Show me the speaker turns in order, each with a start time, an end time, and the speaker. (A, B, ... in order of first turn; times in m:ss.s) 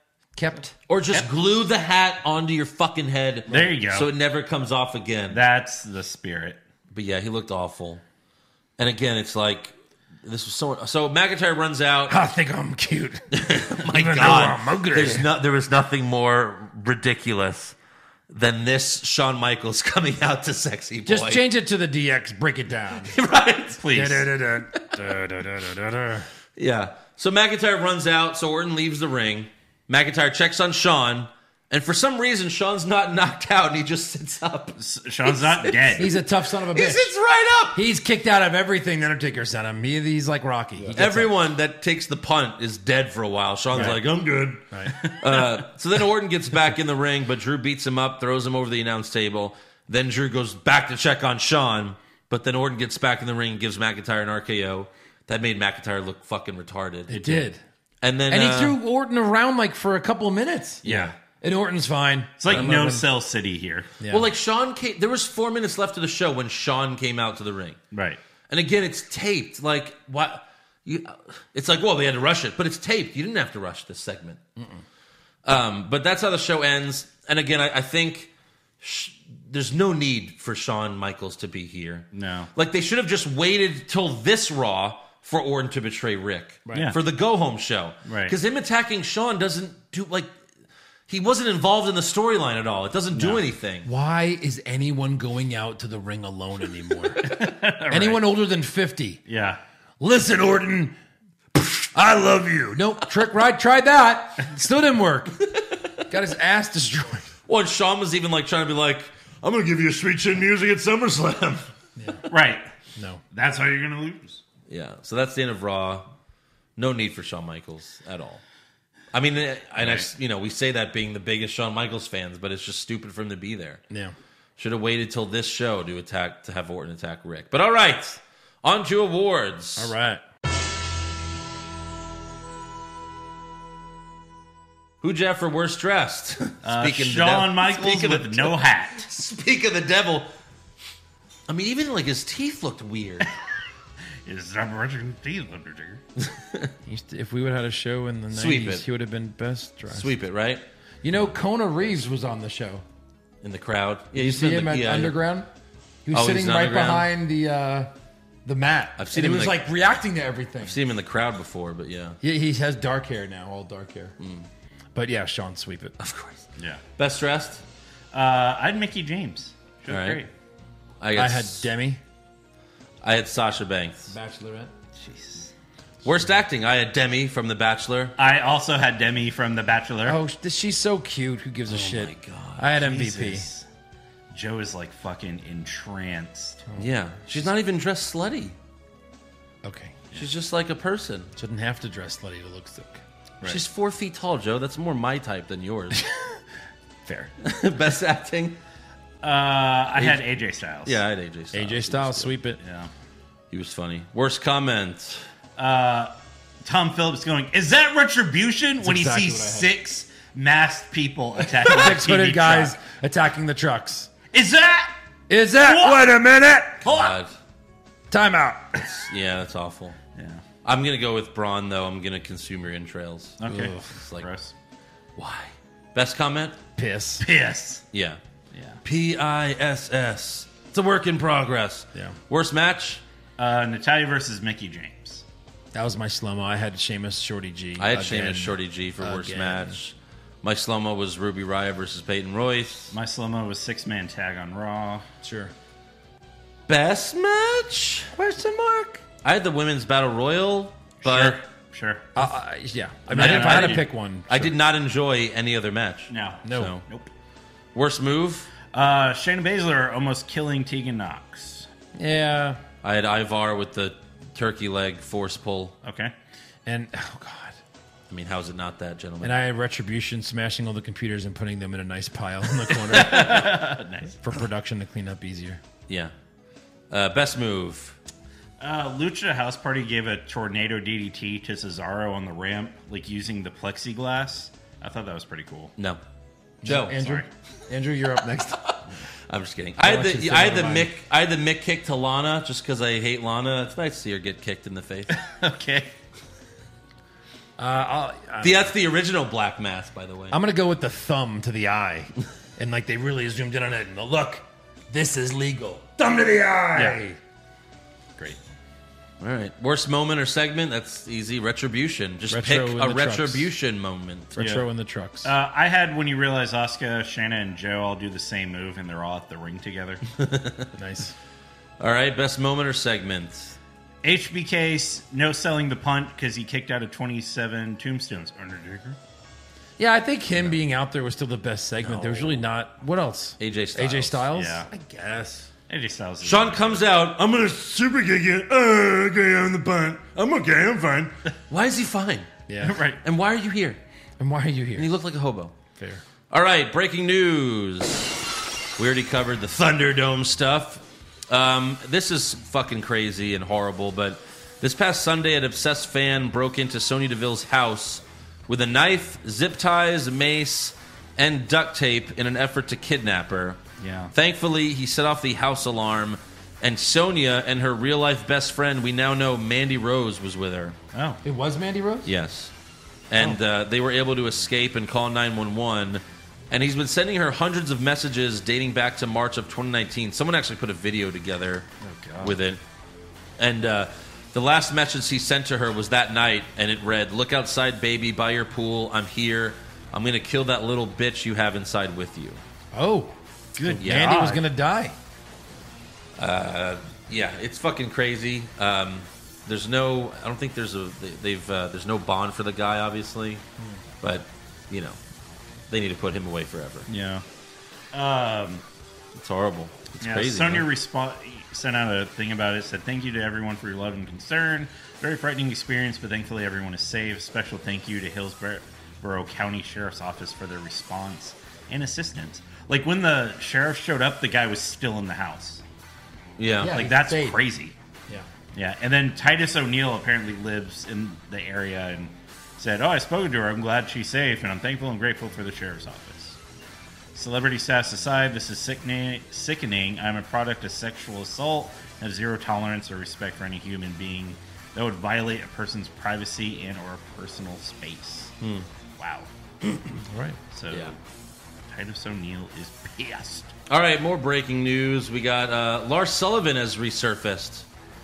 0:00.4-0:00.7 A
0:00.9-0:05.4 B
0:03.5-0:04.1 C
0:05.3-0:06.6 C
0:06.9-0:08.0 B
0:08.8-0:12.2 B
0:12.1-0:13.3 A
0:13.3-0:17.8 B
0:13.8-0:15.3 A
0:18.3-0:21.4 B
0:21.1-0:23.2 A
0:23.0-0:23.8 B
0:23.8-0:24.3 C
0:23.9-0:26.3 A
0:26.6-0:37.8 B
0:34.8-0:36.1 C
0:36.0-0:37.1 A
0:37.7-0:41.3 A
0:41.0-0:57.4 B
0:43.7-0:44.0 A
0:44.3-0:44.5 D
0:44.7-0:45.0 A
0:45.0-0:45.5 C
0:57.1-0:57.6 A
0:58.0-0:58.8 B
0:58.3-1:03.0 A
1:00.8-1:01.2 C
1:00.9-1:01.1 B
1:02.4-1:03.9 C
1:04.0-1:04.3 A
1:04.1-1:07.8 B
1:07.9-1:08.2 C
1:08.5-1:14.4 B
1:15.4-1:30.3 B
1:22.1-1:22.5 C
1:26.7-1:26.9 A
1:28.1-1:28.4 C
1:31.1-1:33.9 B
1:33.1-1:33.4 C
1:33.8-1:37.3 A
1:37.2-1:38.2 C
1:37.9-1:39.2 A
1:39.3-1:39.6 C
1:40.0-1:41.0 A
1:41.6-1:45.4 A
1:46.1-1:47.3 A
1:47.5-1:49.2 B
1:49.4-1:51.6 D
1:52.0-1:52.2 A
1:52.3-1:52.7 C
1:53.0-1:53.2 A
1:53.3-1:54.4 C
1:54.7-1:56.1 B
1:56.8-1:58.4 B
1:59.1-2:03.8 B
1:59.8-2:00.1 C
2:04.6-2:09.9 B
2:09.8-2:10.2 A
2:15.0-2:20.3 B
2:16.6-2:19.0 C
2:21.5-2:23.3 B
2:24.3-2:26.0 C
2:26.2-2:26.7 B
2:26.9-2:30.1 A
2:28.3-2:28.9 B
2:29.9-2:30.6 B
2:31.0-2:32.8 A
2:33.4-2:35.2 B
2:34.2-2:35.5 A
2:36.1-2:37.9 A
2:36.1-2:37.1 B
2:38.4-2:40.8 A
2:39.0-2:39.7 B
2:40.6-2:42.2 B
2:42.2-2:44.2 A
2:44.2-2:44.5 B
2:45.0-2:46.0 A
2:46.0-2:46.4 B
2:47.0-2:47.6 B
2:48.1-2:50.3 C
2:49.9-2:50.2 B
2:51.0-2:51.7 B
2:51.2-2:52.0 A
2:53.0-2:54.1 B
2:54.1-2:54.7 A
2:55.0-2:55.5 C
2:56.0-2:58.2 B
2:58.2-3:00.2 C
3:00.0-3:03.4 A
3:01.7-3:02.7 B
3:02.8-3:03.7 C
3:04.3-3:06.6 C
3:06.8-3:08.6 B
3:09.6-3:10.0 A
3:10.2-3:11.3 B
3:11.4-3:13.0 A
3:13.4-3:16.0 B
3:17.4-3:18.6 B
3:19.2-3:21.0 C
3:19.9-3:20.2 B
3:20.8-3:22.3 B
3:21.5-3:22.6 A
3:22.6-3:22.9 C
3:23.5-3:25.2 B
3:25.6-3:26.1 C
3:26.6-3:32.8 C
3:28.8-3:29.7 A
3:31.7-3:34.1 A
3:34.3-3:34.9 C
3:35.3-3:36.8 A
3:35.6-3:36.1 C
3:36.8-3:37.2 C
3:36.8-3:37.4 B
3:38.1-3:38.9 A
3:38.8-3:40.0 B
3:40.2-3:40.4 C
3:40.6-3:44.3 B
3:43.4-3:44.5 C
3:43.5-3:43.9 A
3:45.2-3:46.6 B
3:46.8-3:47.2 A
3:47.2-3:47.8 C
3:47.9-3:48.2 B
3:48.5-3:48.8 C
3:48.8-3:53.0 B
3:53.4-3:55.2 C
3:55.7-3:59.8 A
3:57.8-4:02.9 B
4:02.9-4:05.0 C
4:05.2-4:05.5 A
4:06.7-4:08.1 B
4:08.2-4:09.0 A
4:09.2-4:11.4 B
4:11.0-4:12.1 C
4:12.2-4:14.5 A
4:13.1-4:13.9 C
4:13.1-4:16.8 B
4:16.1-4:17.1 C
4:16.4-4:16.7 A
4:17.7-4:18.5 B
4:18.7-4:21.7 C
4:22.0-4:22.6 A
4:22.8-4:25.7 B
4:25.8-4:26.1 C
4:26.7-4:27.6 A
4:28.1-4:29.4 B
4:29.2-4:33.6 A
4:32.9-4:34.2 C
4:34.2-4:35.6 A
4:35.9-4:36.1 B
4:36.9-4:38.0 B
4:38.6-4:45.7 C
4:46.6-4:48.7 A
4:46.6-4:47.0 B
4:46.9-4:47.3 C
4:49.3-4:55.2 B
4:49.8-4:50.9 A
4:55.1-4:55.9 C
4:57.6-4:58.7 A
4:58.4-5:00.4 B
5:00.3-5:07.2 A
5:09.2-5:14.4 B
5:12.3-5:13.5 A
5:14.4-5:15.3 A
5:14.4-5:14.7 C
5:15.2-5:20.0 C
5:20.2-5:20.7 B
5:20.8-5:21.1 A
5:21.8-5:23.6 B
5:24.0-5:29.0 C
5:29.8-5:35.5 A
5:31.8-5:32.4 B
5:33.4-5:34.3 B
5:34.3-5:34.7 C
5:35.7-5:36.8 C
5:36.2-5:37.2 B
5:37.1-5:41.1 D
5:41.5-5:42.4 B
5:42.5-5:42.8 A
5:42.6-5:43.0 C
5:43.0-5:43.8 B
5:44.2-5:44.9 A
5:44.8-5:45.5 B
5:45.8-5:46.0 A
5:46.3-5:48.2 B
5:48.8-6:03.6 B
6:03.8-6:04.1 C
6:04.1-6:10.8 B
6:10.9-6:11.2 C
6:11.2-6:12.1 A
6:12.0-6:12.5 B
6:13.1-6:21.7 B
6:21.8-6:22.4 C
6:22.2-6:22.6 B
6:23.4-6:32.4 B
6:32.7-6:35.0 A
6:33.6-6:34.4 C
6:33.8-6:34.3 B
6:36.2-6:43.4 B
6:44.0-6:45.0 B
6:45.7-6:46.9 B
6:46.9-6:47.2 C
6:47.9-6:48.6 C
6:49.2-6:50.7 B
6:50.0-7:05.6 C
7:06.4-7:06.9 B
7:06.6-7:07.4 A
7:06.7-7:07.8 C
7:08.6-7:16.4 C
7:17.1-7:28.3 C
7:28.4-7:28.7 B
7:29.0-7:29.3 C
7:30.1-7:30.4 A
7:30.5-7:31.0 C
7:30.7-7:31.0 B
7:31.7-7:33.5 C
7:33.7-7:37.7 B